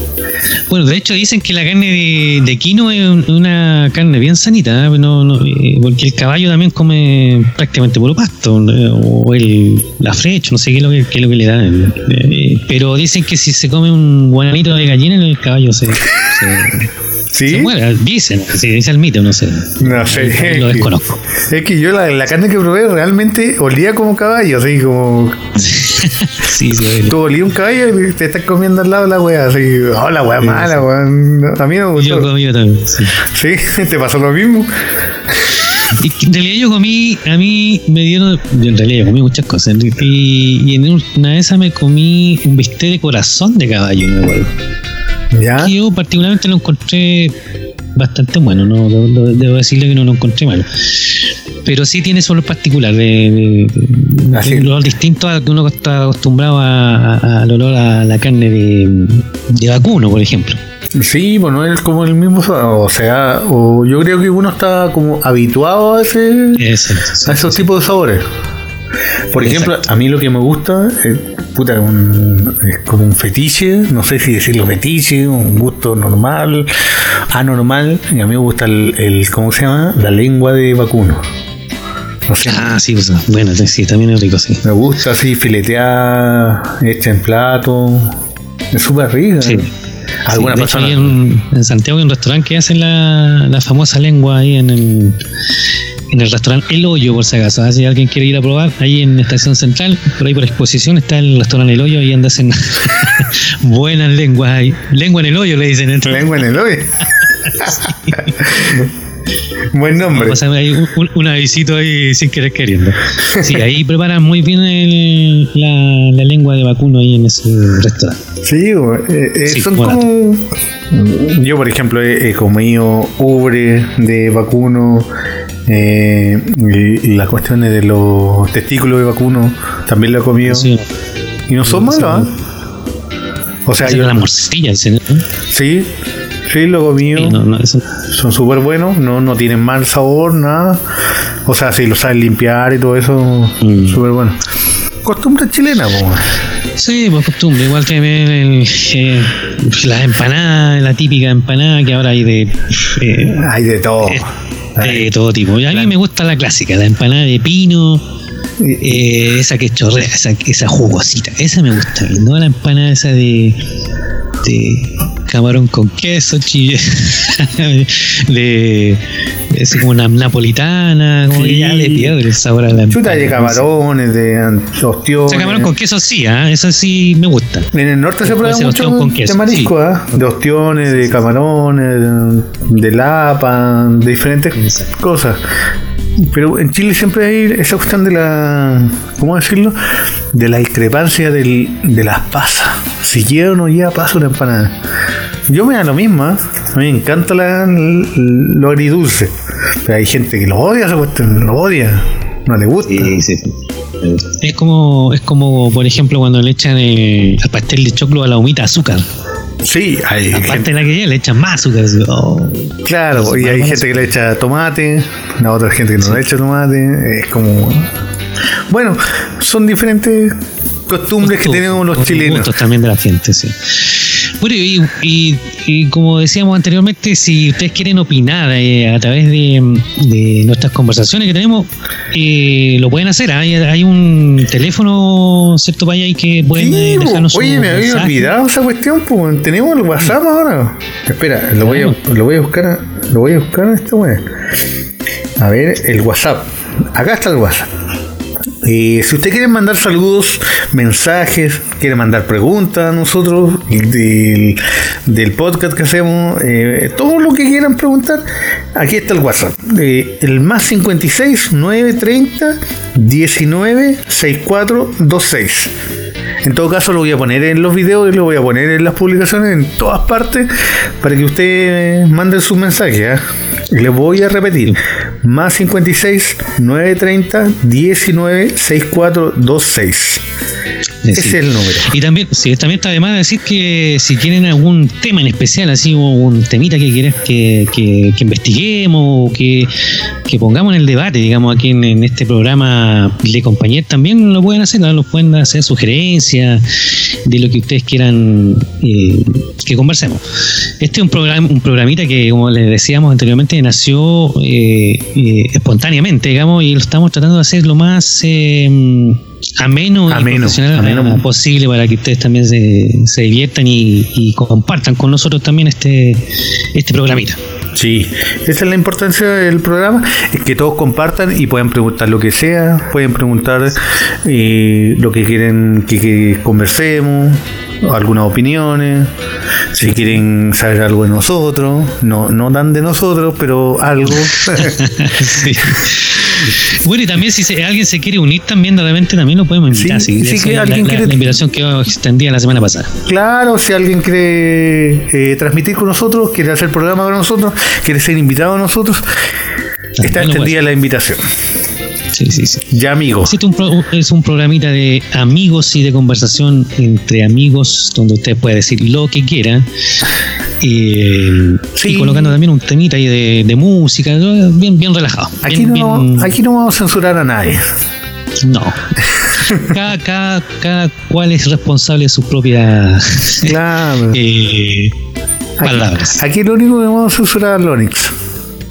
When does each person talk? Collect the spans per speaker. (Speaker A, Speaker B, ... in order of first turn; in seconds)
Speaker A: 0.7-16.9, 17.4-21.2, 25.6-27.2, 30.4-30.8, 31.9-33.2, 35.8-44.5, 45.6-47.3, 48.0-60.6, 66.5-67.7, 69.4-69.8, 82.4-84.6, 89.4-89.7, 90.3-95.2, 96.1-106.5, 107.6-108.8, 110.0-118.2, 119.5-120.1, 130.4-130.9, 131.6-132.3, 133.8-135.2, 137.1-137.8, 143.6-144.0, 146.8-153.4, 154.8-158.0, 158.8-163.6, 164.4-173.7, 175.3-177.7, 178.2-179.7, 180.9-181.3, 184.6-184.9, 202.9-209.1, 210.3-214.1, 221.2-238.3, 241.6-242.0, 281.1-289.7, 290.3-300.2, 300.8-317.4, 329.8-330.1, 334.5-342.9, 350.0-350.6, 352.1-352.6, 353.3-359.7, 360.6-366.3, 368.4-368.8, 369.4-373.5, 374.1-374.9, 375.6-376.2
Speaker B: 17.3-17.7, 19.8-25.6, 26.9-32.3, 33.2-34.7, 45.3-45.7, 54.3-54.7, 61.0-66.7, 67.3-68.2, 69.3-76.7, 77.3-81.2, 82.3-82.6, 84.6-88.2, 88.7-89.7, 90.2-91.2, 106.0-107.0, 107.6-108.9, 109.7-110.4, 118.4-125.1, 125.7-130.7, 131.5-132.3, 133.7-134.2, 135.5-135.9, 136.4-137.4, 138.1-140.8, 141.4-144.4, 145.0-146.3, 153.3-155.1, 158.6-159.0, 171.3-172.2, 172.9-175.7, 177.7-185.4, 186.2-189.8, 190.3-194.8, 195.5-203.1, 209.6-210.7, 212.8-217.9, 218.7-222.6, 236.5-244.3, 245.4-247.7, 248.6-258.2, 258.7-265.7, 266.4-280.2, 281.1-281.9, 310.1-311.2, 317.7-329.1, 329.7-334.8, 339.7-341.3, 343.1-349.1, 350.0-351.2, 352.6-353.4, 361.8-362.4, 365.4-367.7, 369.4-369.7, 373.4-374.2, 375.6-378.1